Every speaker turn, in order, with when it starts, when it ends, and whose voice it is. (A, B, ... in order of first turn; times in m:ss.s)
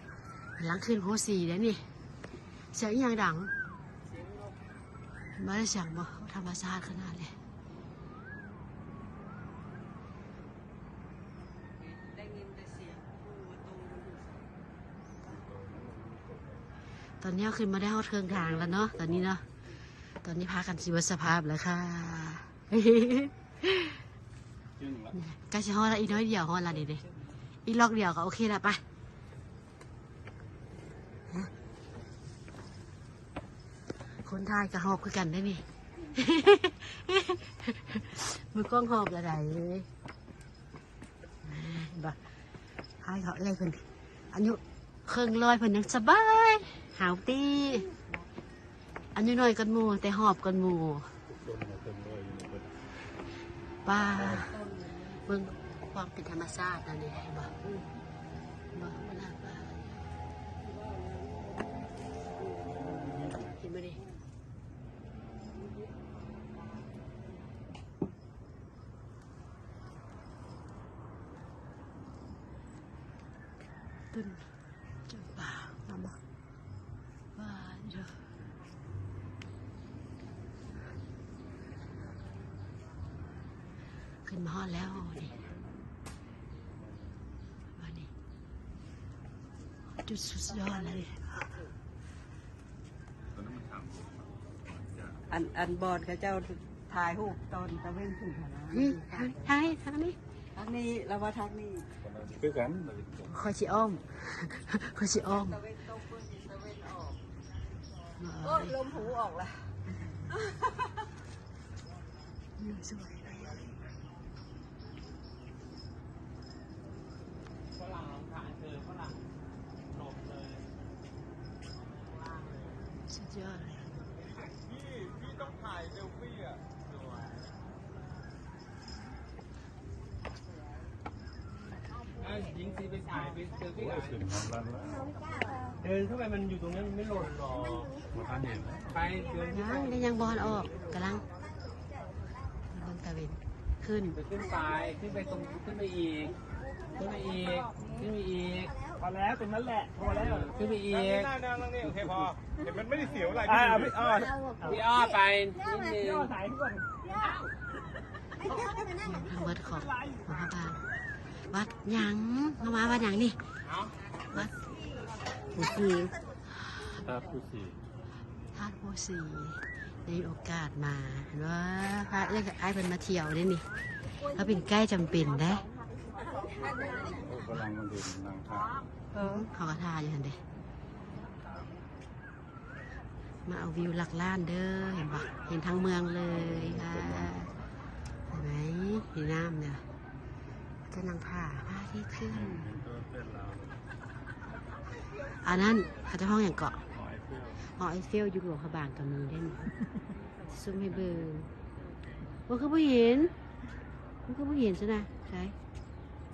0:00.6-0:01.8 A
0:02.7-0:03.5 A
0:04.1-0:04.5 B
0:05.4-0:07.4 A
0:12.1-0:14.3 B
0:15.2-0:16.7 C
0:17.2-0:19.4 A
0:20.2-0:24.0 A
0:24.8-0:25.1 C
0:25.1-0:27.0 A
0:27.6-0:28.8 A
0:34.2-0:39.9 A
0:41.4-0:42.2 A
0:43.0-0:47.9 A
0:49.1-0:51.1 A
0:51.4-0:52.8 C
0:53.8-0:54.6 A
0:54.7-0:54.9 B
0:55.2-0:57.6 A
0:58.7-0:59.9 A
1:03.0-1:03.4 C
1:03.6-1:04.0 A
1:14.1-1:14.5 A
1:15.1-1:16.2 A
1:17.4-1:18.2 A
1:24.2-1:25.4 A
1:27.8-1:28.1 A
1:30.0-1:31.5 A
1:33.4-1:35.3 C
1:35.3-1:39.3 B
1:38.7-1:40.2 A
1:40.6-1:41.9 B
1:42.0-1:43.2 C
1:43.3-1:45.6 A
1:45.6-1:47.2 B
1:48.2-1:49.1 A
1:48.6-1:49.7 B
1:52.6-1:53.6 A
1:57.8-1:59.2 D
1:59.9-2:00.7 D
2:02.3-2:02.6 D
2:03.1-2:03.9 A
2:12.2-2:14.3 D
2:13.9-2:15.1 C
2:15.8-2:18.0 D
2:18.1-2:18.9 C
2:18.9-2:20.0 D
2:19.5-2:21.3 A
2:22.7-2:24.2 A
2:24.2-2:26.4 D
2:26.9-2:28.9 D
2:29.0-2:30.4 E
2:30.0-2:31.4 D
2:33.5-2:34.3 E
2:34.6-2:36.4 D
2:36.3-2:36.9 E
2:38.9-2:43.4 A
2:43.7-2:44.0 D
2:45.5-2:46.2 A
2:47.0-2:47.8 C
2:48.5-2:55.7 A
2:57.0-2:58.8 C
2:59.2-3:00.4 A
3:03.4-3:07.5 A
3:08.3-3:09.8 A
3:10.9-3:12.7 A
3:12.5-3:13.8 C
3:15.4-3:16.8 A
3:17.0-3:17.6 C
3:17.8-3:19.7 A
3:20.5-3:21.5 A
3:22.5-3:23.3 A
3:24.3-3:25.6 A